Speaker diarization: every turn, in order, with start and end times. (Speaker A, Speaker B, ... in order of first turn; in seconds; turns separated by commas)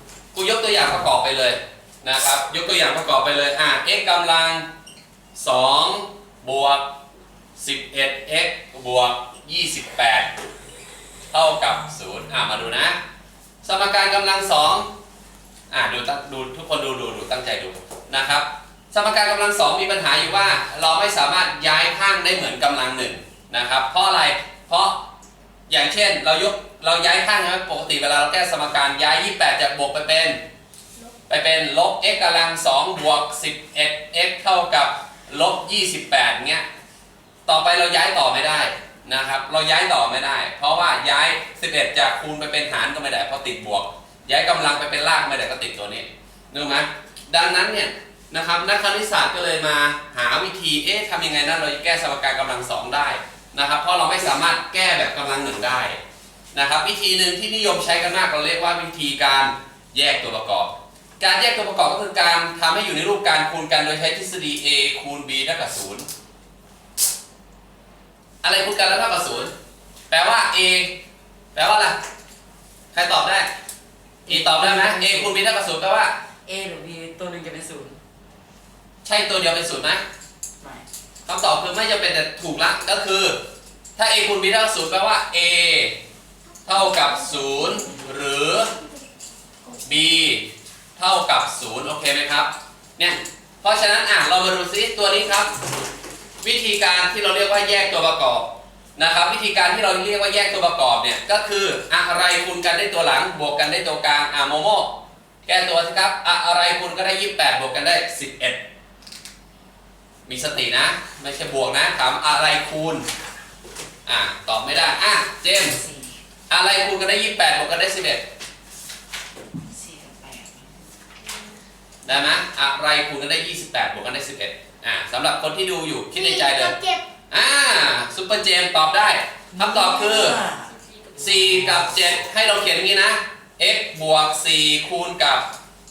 Speaker A: 0.3-4.7, Speaker A: 5.3-6.9, Speaker A: 7.6-10.3, Speaker A: 11.3-13.0, Speaker A: 13.6-14.9, Speaker A: 15.7-25.0, Speaker A: 25.7-30.4, Speaker A: 31.3-36.6, Speaker A: 37.5-56.0, Speaker A: 56.5-66.1, Speaker A: 68.4-69.5, Speaker A: 70.1-71.0, Speaker A: 71.5-72.0, Speaker A: 72.9-73.5, Speaker A: 74.2-76.1, Speaker B: 74.3-75.4, Speaker B: 76.4-78.0, Speaker A: 79.0-80.0, Speaker B: 80.6-80.8, Speaker A: 81.2-83.4, Speaker A: 84.0-86.0, Speaker C: 86.6-89.0, Speaker A: 86.7-88.7, Speaker C: 89.6-90.0, Speaker A: 89.8-95.5, Speaker A: 96.4-104.9, Speaker A: 105.5-108.6, Speaker A: 110.2-113.0, Speaker A: 114.1-115.8, Speaker B: 115.5-116.2, Speaker A: 116.5-118.2, Speaker B: 119.5-120.8, Speaker A: 122.0-126.7, Speaker C: 126.1-127.1, Speaker A: 127.3-130.4, Speaker B: 129.5-131.9, Speaker A: 131.2-135.4